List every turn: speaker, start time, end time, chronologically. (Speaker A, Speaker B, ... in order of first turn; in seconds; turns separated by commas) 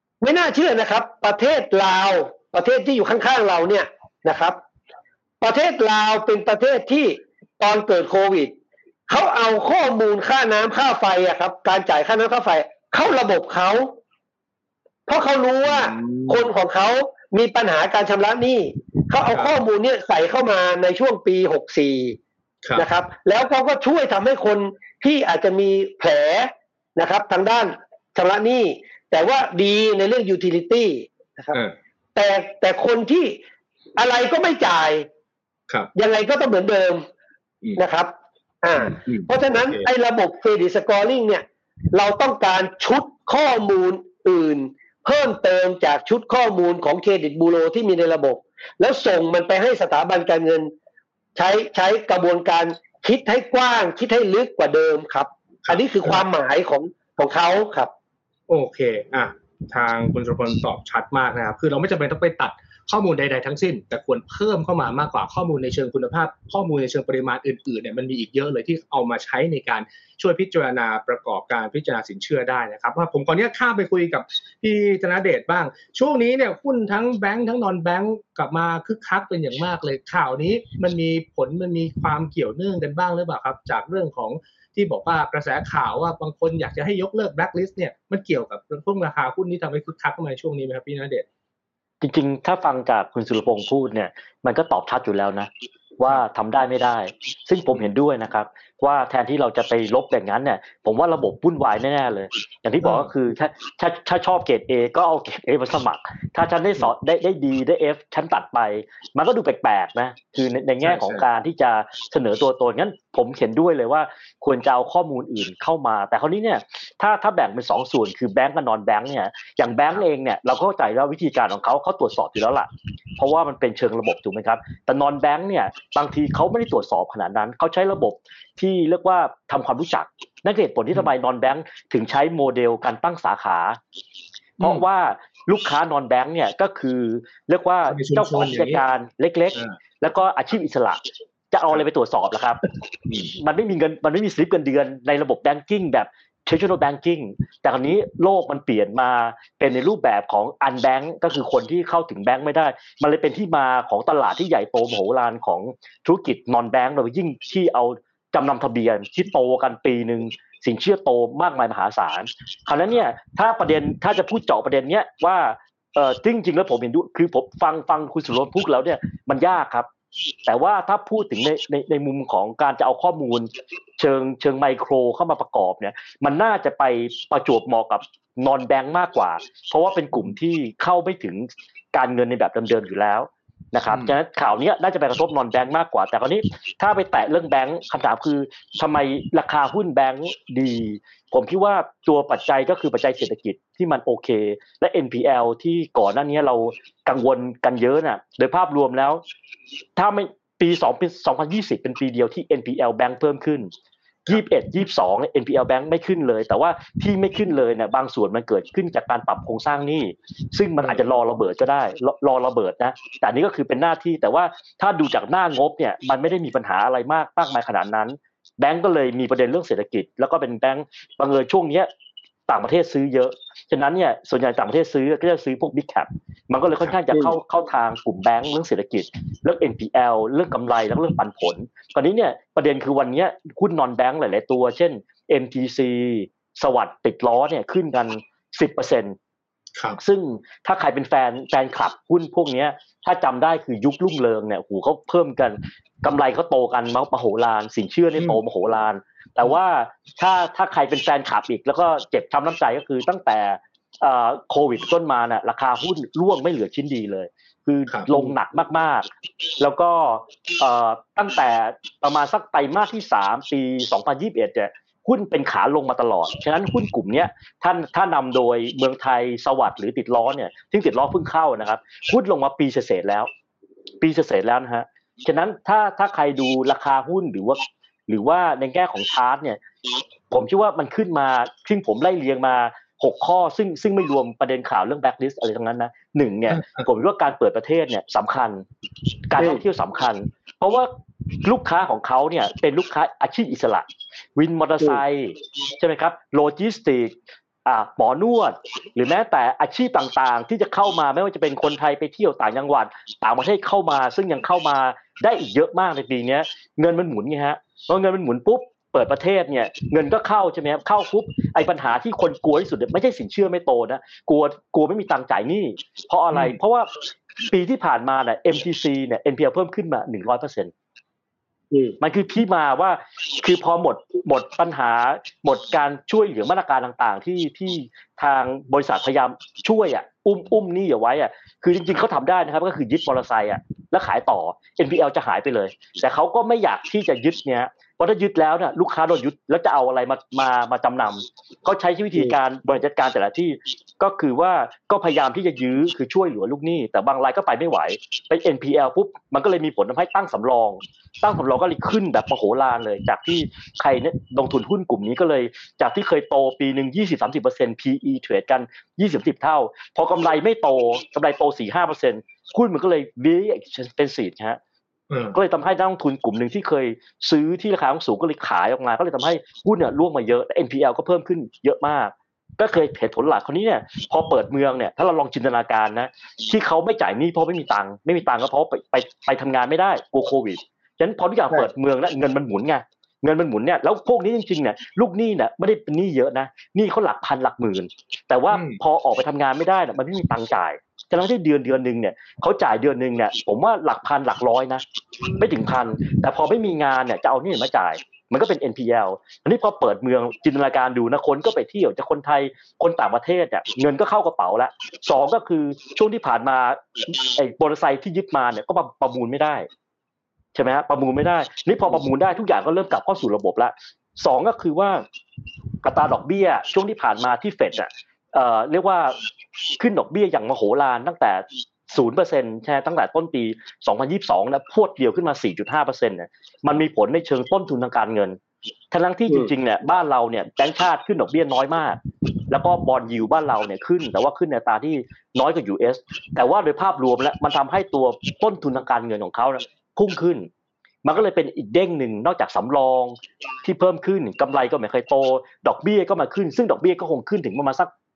Speaker A: 0.2-4.6, Speaker A: 5.4-8.5, Speaker A: 9.1-13.9, Speaker A: 15.1-22.2, Speaker B: 15.7-16.5, Speaker B: 19.3-19.6, Speaker A: 22.8-31.5, Speaker A: 32.1-33.4, Speaker A: 34.0-35.1, Speaker A: 35.9-37.0, Speaker A: 37.8-50.7, Speaker B: 38.8-39.9, Speaker A: 51.4-57.9, Speaker B: 55.6-56.2, Speaker B: 58.5-91.2, Speaker C: 92.0-133.8, Speaker B: 102.8-103.1, Speaker B: 110.8-111.2, Speaker C: 134.6-141.0, Speaker B: 137.9-138.8, Speaker C: 141.5-142.6, Speaker B: 143.1-143.3, Speaker C: 143.3-169.9, Speaker C: 170.4-199.2, Speaker C: 200.0-203.7, Speaker C: 204.3-221.9, Speaker B: 210.8-211.1, Speaker C: 222.5-239.2, Speaker C: 240.0-259.1, Speaker B: 257.9-258.3, Speaker C: 259.6-273.3, Speaker C: 274.0-279.6, Speaker C: 280.3-288.6, Speaker C: 289.3-290.9, Speaker C: 291.4-297.1, Speaker C: 297.6-316.9, Speaker C: 317.5-320.7, Speaker C: 322.0-364.6, Speaker B: 365.1-365.4, Speaker C: 365.3-394.8, Speaker B: 388.5-388.8, Speaker C: 395.3-409.7, Speaker C: 410.5-415.0, Speaker C: 415.8-419.1, Speaker C: 419.8-428.4, Speaker C: 428.9-432.0, Speaker C: 432.5-440.5, Speaker C: 441.0-447.9